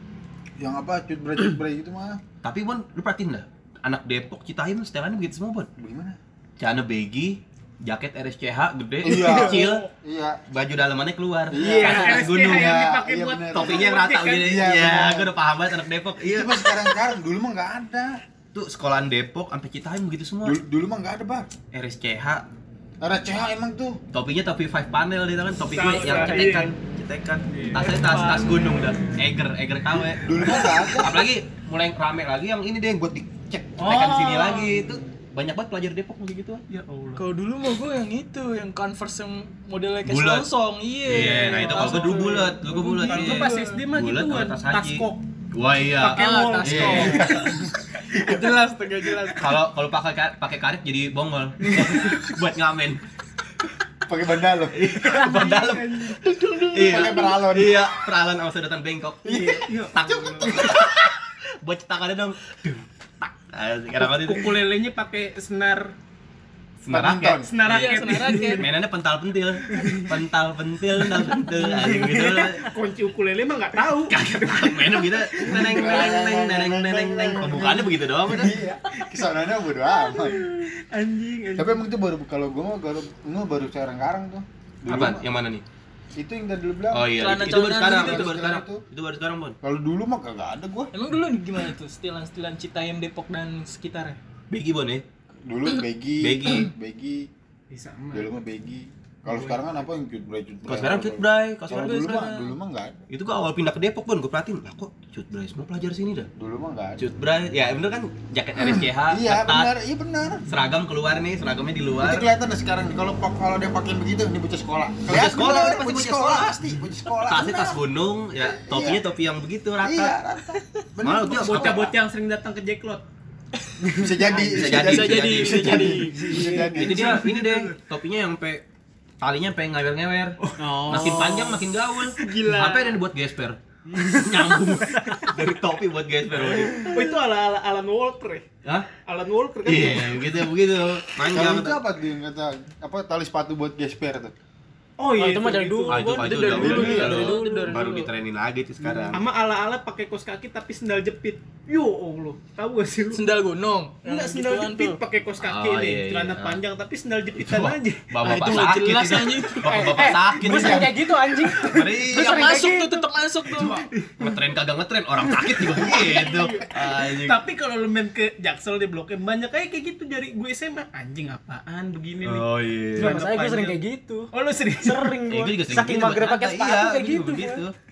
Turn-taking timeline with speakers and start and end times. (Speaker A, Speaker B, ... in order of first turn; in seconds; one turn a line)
Speaker A: 0.6-2.2
Speaker B: 2.4-5.7
Speaker A: 5.8-6.2
Speaker B: 6.6-9.8
Speaker A: 9.0-10.4
Speaker C: 9.3-9.9
Speaker B: 10.5-12.8
Speaker A: 11.5-15.3
Speaker D: 11.6-12.2
Speaker C: 11.8-14.5
Speaker B: 13.5-16.9
Speaker A: 16.2-18.2
Speaker B: 18.5-20.6
Speaker A: 20.4-21.5
Speaker B: 21.7-22.5
Speaker A: 23.0-24.0
Speaker B: 24.1-36.6
Speaker C: 25.7-26.7
Speaker C: 27.5-28.2
Speaker E: 28.0-28.5
Speaker A: 30.2-31.2
Speaker C: 33.8-34.8
Speaker C: 36.7-37.2
Speaker E: 37.2-43.8
Speaker B: 40.0-40.5
Speaker B: 41.0-47.5
Speaker C: 41.5-42.5
Speaker C: 43.0-45.2
Speaker C: 46.0-47.5
Speaker E: 46.1-49.5
Speaker B: 49.4-53.0
Speaker A: 54.1-54.8
Speaker B: 54.7-64.6
Speaker C: 55.0-56.2
Speaker E: 56.2-57.4
Speaker A: 56.8-57.8
Speaker A: 59.2-59.6
Speaker C: 59.6-60.7
Speaker A: 60.4-60.7
Speaker C: 64.0-65.9
Speaker B: 66.8-72.7
Speaker A: 66.9-67.5
Speaker C: 67.4-68.7
Speaker E: 67.6-68.6
Speaker C: 69.7-70.1
Speaker C: 71.7-75.9
Speaker B: 74.1-78.6
Speaker A: 75.4-80.5
Speaker C: 80.1-81.8
Speaker A: 81.6-85.2
Speaker B: 84.8-85.6
Speaker A: 86.2-88.8
Speaker B: 86.9-89.6
Speaker E: 87.1-88.4
Speaker A: 89.6-90.9
Speaker E: 90.9-94.2
Speaker B: 94.5-95.0
Speaker A: 95.5-97.3
Speaker B: 96.2-96.7
Speaker C: 97.7-98.3
Speaker A: 98.1-103.0
Speaker C: 99.2-99.6
Speaker B: 100.7-102.3
Speaker E: 101.9-102.5
Speaker B: 103.1-106.3
Speaker A: 106.4-107.0
Speaker B: 107.0-109.7
Speaker A: 108.5-110.4
Speaker B: 110.5-112.3
Speaker A: 112.0-117.8
Speaker B: 115.1-116.6
Speaker B: 117.2-120.2
Speaker A: 118.4-119.0
Speaker A: 119.8-121.9
Speaker B: 121.0-121.8
Speaker C: 121.3-123.0
Speaker A: 123.9-127.2
Speaker E: 124.3-126.8
Speaker B: 124.4-126.0
Speaker C: 126.3-127.8
Speaker B: 126.7-128.7
Speaker B: 129.2-136.9
Speaker D: 130.6-131.6
Speaker E: 132.0-133.0
Speaker D: 133.9-134.3
Speaker C: 136.8-140.5
Speaker B: 138.6-138.9
Speaker B: 139.6-141.8
Speaker A: 141.3-144.3
Speaker C: 145.0-146.2
Speaker D: 145.1-147.8
Speaker B: 145.9-149.2
Speaker E: 146.1-148.1
Speaker A: 146.5-147.3
Speaker A: 148.8-149.2
Speaker C: 149.1-153.4
Speaker E: 153.1-155.0
Speaker C: 154.0-158.1
Speaker B: 155.4-156.6
Speaker B: 157.4-162.7
Speaker E: 158.2-160.1
Speaker D: 159.6-163.1
Speaker C: 160.5-160.9
Speaker E: 161.9-163.9
Speaker B: 163.5-167.4
Speaker C: 163.6-164.3
Speaker C: 165.4-173.8
Speaker E: 165.9-166.4
Speaker B: 172.2-173.2
Speaker D: 173.0-177.6
Speaker C: 174.3-175.2
Speaker B: 175.3-177.7